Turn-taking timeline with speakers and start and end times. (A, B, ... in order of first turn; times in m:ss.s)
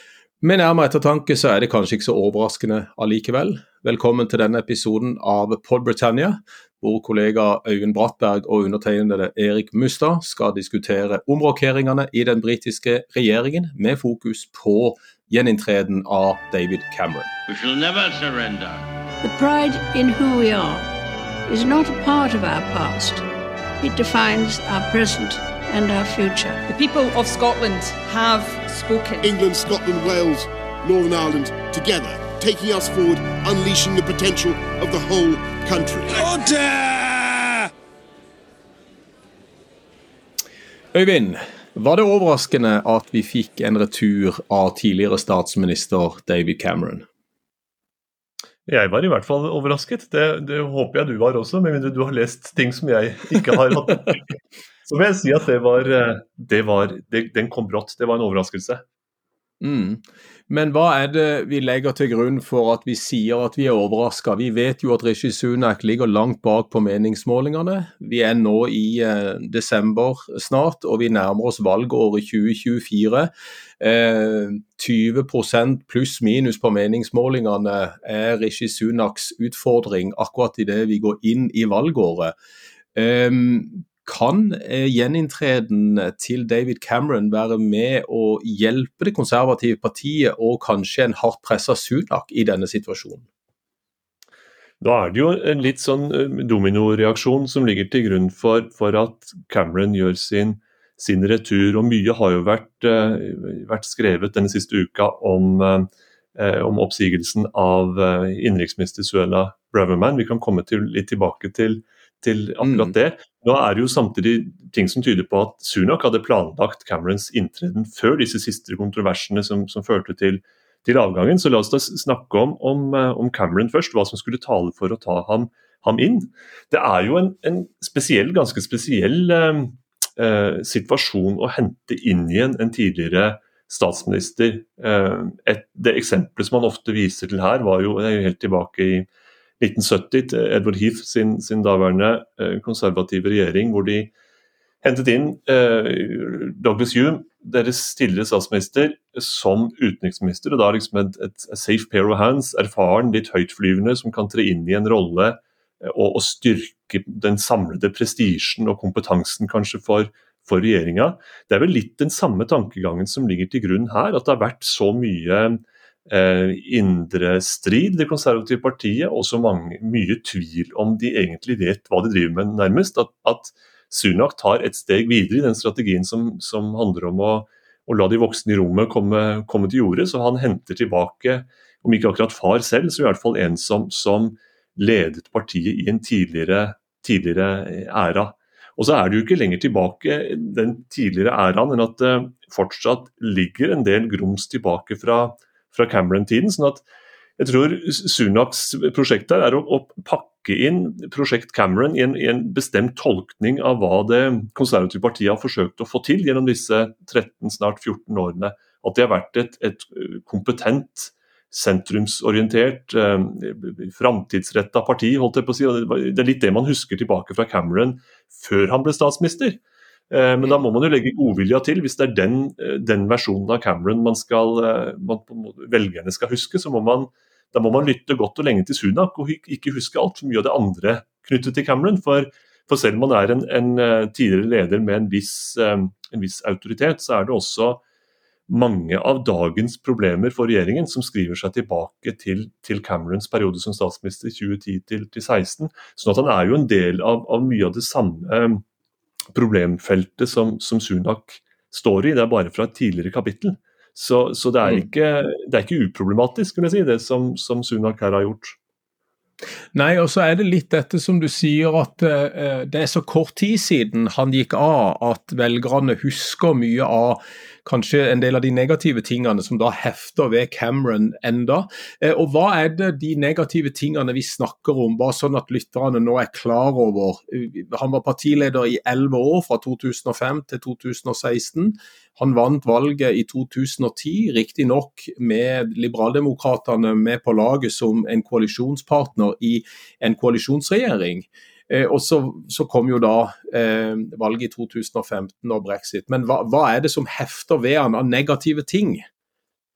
0:00.4-0:17.3 A
0:17.5-0:18.8 B
0:19.2-0:20.9 C
0:21.5-0:23.2 C
0:23.8-0:26.6 C
0:26.7-0:29.3 D
0:29.2-0:36.2 E
0:36.1-0:37.6 B
0:40.9-0:47.0 A
0:48.6-0:54.2 F
0:54.8-0:58.8 F
0:59.6-1:22.3 A
1:23.0-1:33.2 A
1:34.8-2:19.1 F
1:52.6-1:52.9 A
2:19.6-2:24.1 F
2:24.8-3:16.8 F
3:17.4-3:57.8 F
3:58.5-4:08.6 F
4:09.3-4:18.6 F
4:19.7-4:59.0 A